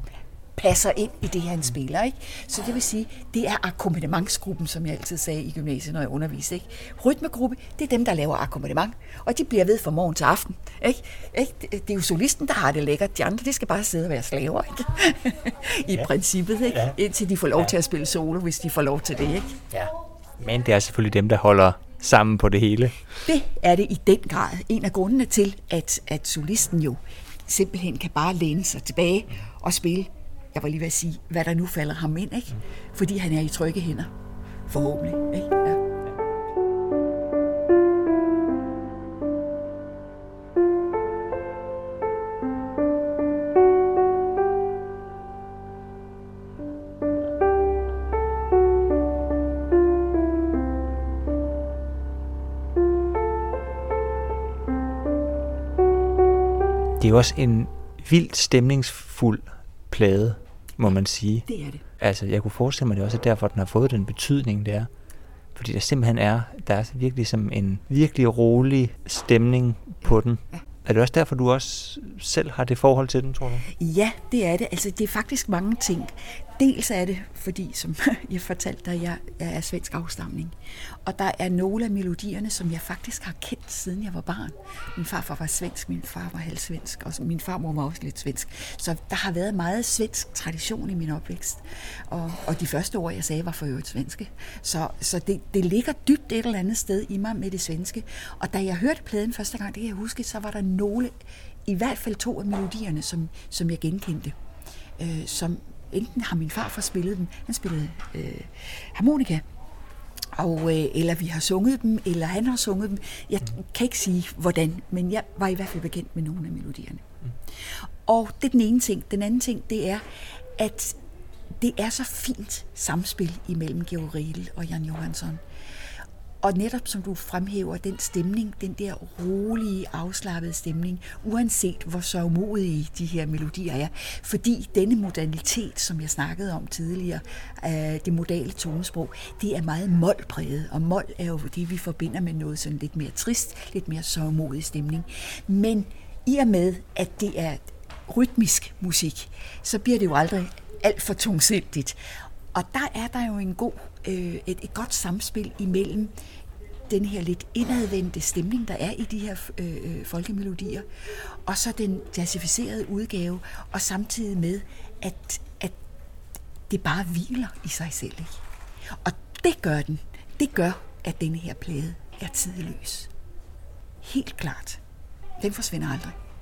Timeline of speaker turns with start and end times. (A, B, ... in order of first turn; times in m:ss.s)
0:00.6-0:19.6 A
0:19.7-0:23.1 B
0:23.2-0:34.1 A
0:34.7-0:35.8 A
0:57.0-1:01.5 B
1:01.5-1:01.8 A
1:02.0-1:04.9 B
1:05.6-1:13.7 B
1:13.7-1:44.4 A
1:45.0-1:49.4 A
1:50.3-1:57.2 A
1:58.1-2:00.0 A
2:00.6-2:01.0 A
2:01.6-2:05.4 A
2:06.4-2:32.0 A
2:32.5-2:36.1 A
2:36.9-2:40.9 A
2:41.5-2:45.8 A
2:46.7-2:48.4 A
2:49.0-2:53.1 A
2:54.0-2:54.8 A
2:55.4-2:56.2 A